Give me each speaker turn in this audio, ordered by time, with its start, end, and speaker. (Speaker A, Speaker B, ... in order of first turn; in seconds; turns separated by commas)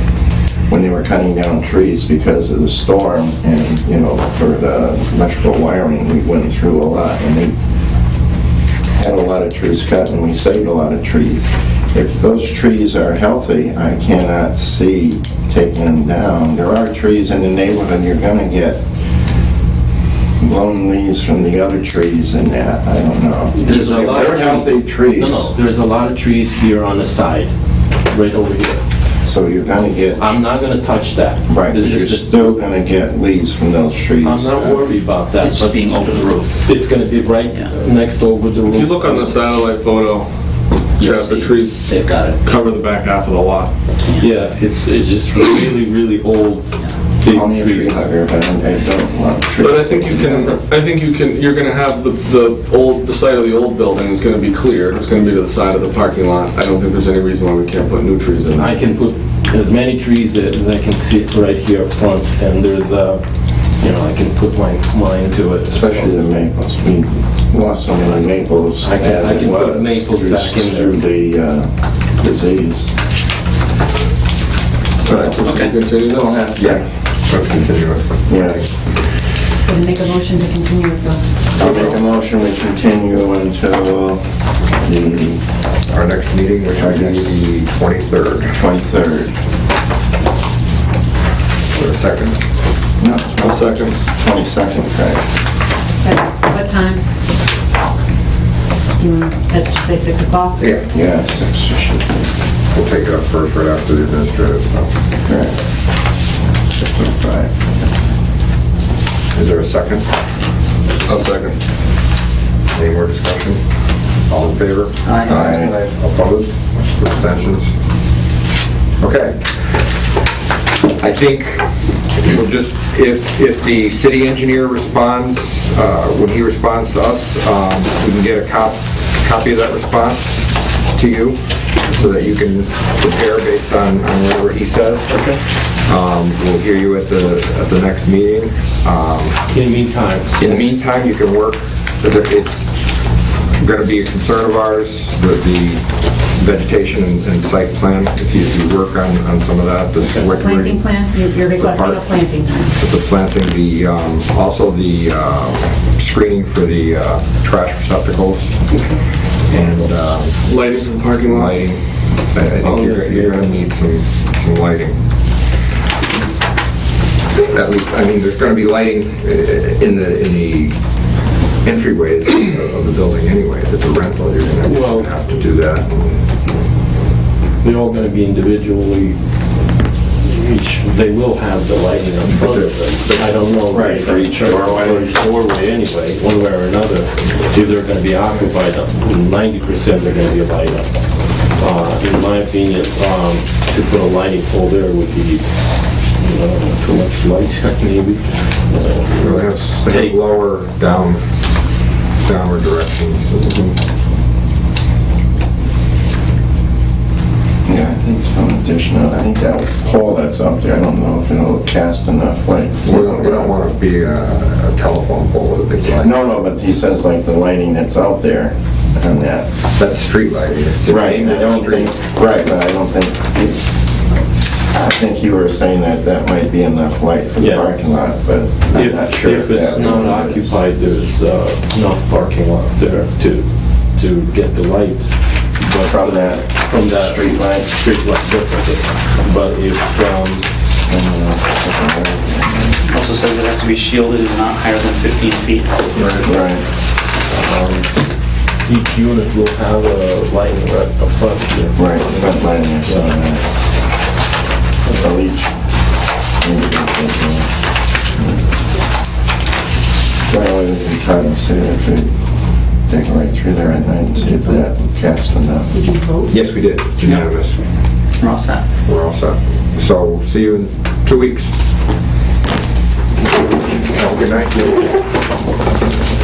Speaker A: 0.7-7.5, Speaker A: 8.9-18.8, Speaker A: 20.4-25.5, Speaker B: 23.5-27.5, Speaker B: 28.1-28.8, Speaker A: 29.2-30.4, Speaker B: 30.1-32.6, Speaker A: 31.5-34.9, Speaker B: 34.2-35.8, Speaker C: 35.4-36.6, Speaker B: 36.6-39.6, Speaker D: 38.7-40.3, Speaker C: 41.0-42.4, Speaker D: 41.0-43.7, Speaker B: 44.2-46.7, Speaker B: 47.2-48.0, Speaker A: 47.2-50.5, Speaker D: 49.5-58.8, Speaker B: 58.5-63.2, Speaker B: 63.8-66.2, Speaker A: 65.7-73.0, Speaker B: 68.8-71.0, Speaker D: 75.0-76.5, Speaker A: 75.0-76.8, Speaker C: 75.4-75.7, Speaker E: 76.5-78.1, Speaker A: 78.3-78.7, Speaker F: 79.6-81.2, Speaker A: 81.5-84.2, Speaker E: 81.6-81.9, Speaker A: 84.8-85.4, Speaker E: 85.9-88.6, Speaker A: 86.7-87.3, Speaker A: 88.5-89.3, Speaker E: 91.7-92.4, Speaker A: 93.0-95.2, Speaker D: 93.4-94.0, Speaker F: 96.0-97.0, Speaker F: 99.0-100.6, Speaker E: 100.6-100.9, Speaker A: 100.9-102.3, Speaker E: 102.7-104.9, Speaker A: 105.2-105.6, Speaker A: 107.0-107.5, Speaker E: 109.3-110.1, Speaker D: 111.0-111.5, Speaker E: 112.7-113.6, Speaker E: 114.3-117.7, Speaker C: 115.0-115.5, Speaker A: 115.2-115.8, Speaker E: 119.0-119.8, Speaker E: 121.0-135.2, Speaker B: 135.1-135.4, Speaker E: 135.8-139.4, Speaker B: 139.5-140.5, Speaker E: 140.4-142.6, Speaker E: 143.6-158.8, Speaker F: 150.3-152.7, Speaker E: 159.5-165.0, Speaker D: 160.4-161.6, Speaker B: 162.6-163.6, Speaker E: 167.3-170.8, Speaker E: 171.6-176.2, Speaker B: 174.6-175.1, Speaker B: 177.6-179.2, Speaker B: 180.2-190.9, Speaker E: 182.2-183.5, Speaker A: 183.7-185.1, Speaker B: 191.6-195.5, Speaker B: 196.2-200.2, Speaker E: 199.2-201.2, Speaker E: 202.2-203.8, Speaker A: 207.7-213.5, Speaker E: 212.8-216.3, Speaker A: 215.9-219.5, Speaker E: 219.8-221.9, Speaker A: 220.8-223.5, Speaker A: 224.7-230.6, Speaker B: 227.4-227.7, Speaker B: 228.7-240.4, Speaker A: 235.8-237.7, Speaker A: 240.9-242.8, Speaker C: 242.8-245.9, Speaker A: 246.0-246.6, Speaker B: 247.3-247.9, Speaker B: 248.6-253.2, Speaker A: 251.8-253.4, Speaker A: 254.9-255.5, Speaker A: 256.4-257.5, Speaker A: 260.3-262.1, Speaker A: 262.9-265.7, Speaker F: 264.2-264.6, Speaker F: 265.7-266.3, Speaker E: 266.3-267.6, Speaker C: 268.2-268.6, Speaker E: 268.8-271.5, Speaker E: 273.9-274.9